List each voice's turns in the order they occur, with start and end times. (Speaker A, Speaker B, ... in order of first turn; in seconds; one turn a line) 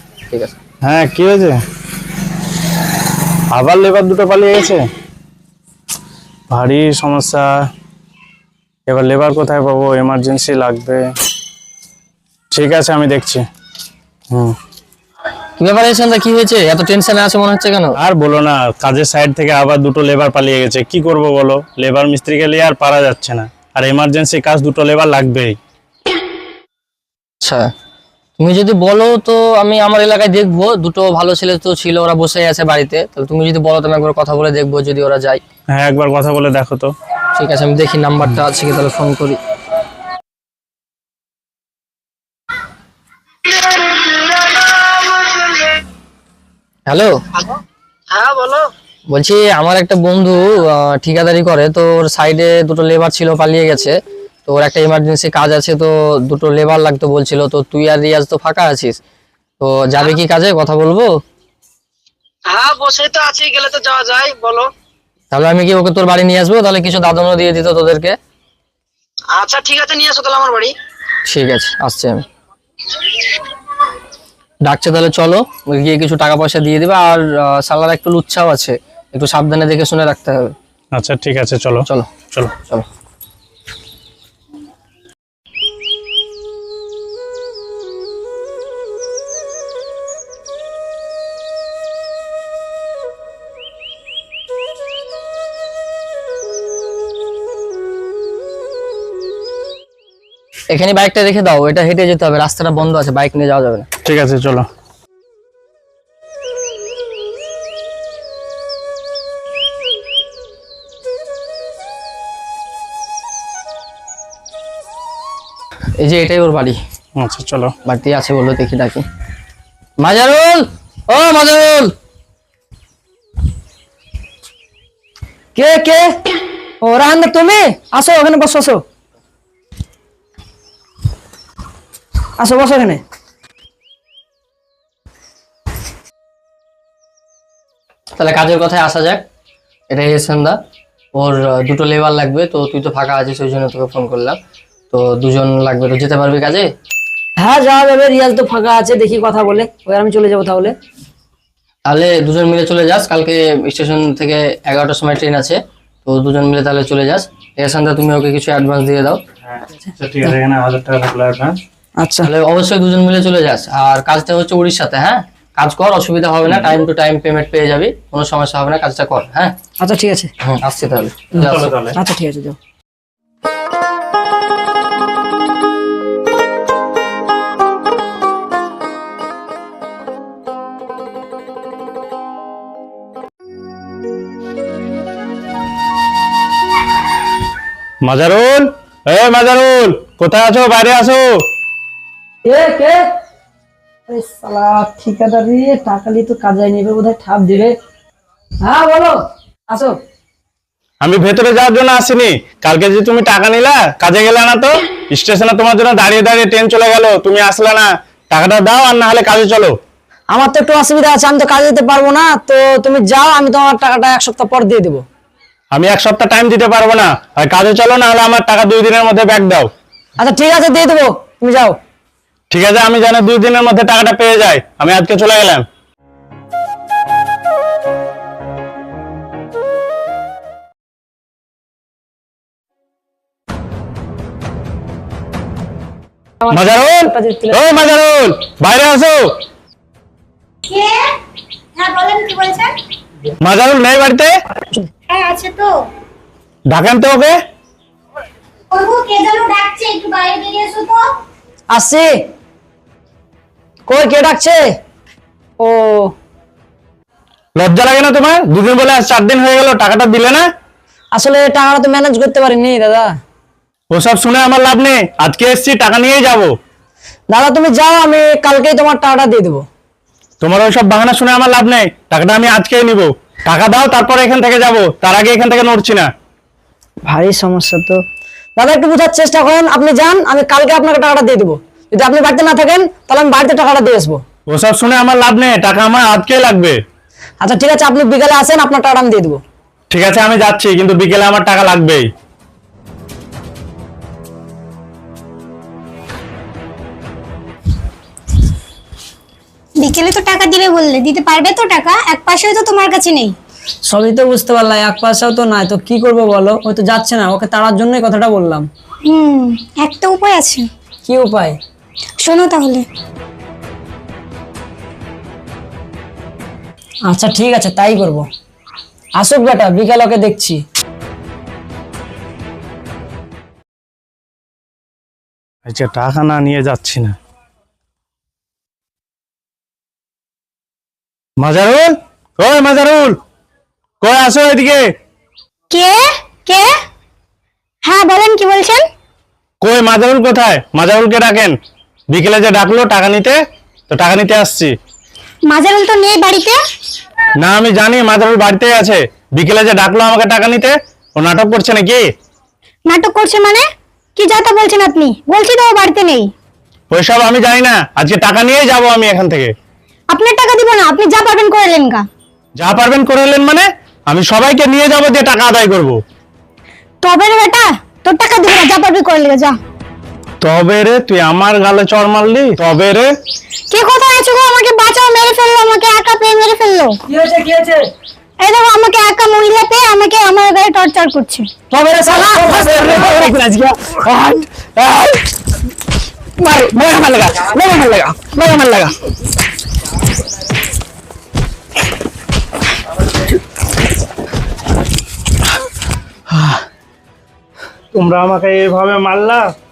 Speaker A: 0.3-0.5
Speaker B: 0.8-1.6
Speaker B: 3.5-4.8
Speaker B: 6.5-7.5
Speaker B: 8.9-11.1
Speaker B: 12.5-13.5
Speaker B: 14.3-14.6
Speaker A: 15.6-18.0
Speaker B: 18.0-25.6
Speaker A: 28.4-35.4
Speaker B: 35.7-36.9
Speaker A: 37.3-39.4
Speaker A: 46.9-47.1
Speaker C: 48.1-48.7
Speaker A: 49.1-59.0
Speaker A: 59.6-61.1
Speaker C: 62.5-64.7
Speaker A: 65.3-68.2
Speaker C: 69.3-70.8
Speaker A: 71.3-72.2
Speaker A: 74.7-80.5
Speaker B: 80.9-82.5
Speaker A: 81.9-82.8
Speaker A: 100.7-103.9
Speaker B: 104.0-104.7
Speaker A: 116.0-116.8
Speaker B: 117.2-117.7
Speaker A: 117.8-119.0
Speaker A: 120.0-121.9
Speaker D: 125.5-126.1
Speaker D: 126.8-128.8
Speaker D: 132.4-133.0
Speaker A: 138.2-139.2
Speaker A: 139.9-140.6
Speaker A: 141.2-144.4
Speaker A: 144.9-146.7
Speaker D: 147.4-150.7
Speaker A: 151.9-159.2
Speaker B: 159.5-161.6
Speaker D: 162.0-162.3
Speaker A: 162.2-169.6
Speaker D: 169.8-170.3
Speaker A: 170.4-171.7
Speaker B: 171.4-172.0
Speaker D: 171.9-172.6
Speaker B: 188.0-191.3
Speaker D: 192.5-193.0
Speaker D: 194.1-197.7
Speaker D: 198.6-199.2
Speaker D: 199.7-200.0
Speaker B: 201.0-209.8
Speaker D: 210.3-215.0
Speaker B: 215.7-219.7
Speaker D: 220.2-221.8
Speaker B: 222.5-225.7
Speaker D: 236.4-237.6
Speaker B: 236.5-239.3
Speaker E: 240.7-241.1
Speaker E: 241.8-242.7
Speaker B: 243.4-244.3
Speaker E: 245.1-245.8
Speaker B: 246.7-247.4
Speaker E: 248.7-251.1
Speaker D: 251.7-252.1
Speaker D: 253.9-254.6
Speaker D: 255.6-256.1
Speaker B: 257.6-260.5
Speaker D: 261.1-263.1
Speaker B: 263.9-266.5
Speaker D: 267.3-269.6
Speaker B: 270.4-276.1
Speaker D: 277.1-278.0
Speaker D: 278.6-284.2
Speaker B: 284.5-286.8
Speaker D: 287.4-289.4
Speaker B: 289.9-292.1
Speaker E: 299.8-303.4
Speaker D: 303.9-308.7
Speaker E: 309.1-310.7
Speaker D: 311.1-311.6
Speaker E: 312.2-312.9
Speaker D: 317.1-318.2
Speaker D: 319.2-320.6
Speaker B: 325.7-327.2
Speaker B: 331.4-333.2
Speaker B: 334.0-334.9
Speaker E: 335.7-336.7
Speaker E: 337.9-338.8
Speaker B: 339.6-341.6
Speaker B: 342.1-343.4
Speaker B: 343.9-344.7
Speaker E: 345.5-346.6
Speaker B: 347.4-352.1
Speaker E: 352.9-353.6
Speaker E: 354.2-356.3
Speaker B: 356.9-359.5
Speaker E: 360.1-362.1
Speaker B: 362.6-366.0
Speaker E: 367.0-369.6
Speaker B: 370.4-373.1
Speaker E: 373.7-377.0
Speaker D: 377.1-377.9
Speaker E: 378.4-381.5
Speaker D: 381.7-383.3
Speaker E: 382.2-382.6
Speaker B: 382.9-385.2
Speaker B: 386.4-388.9
Speaker B: 397.9-399.5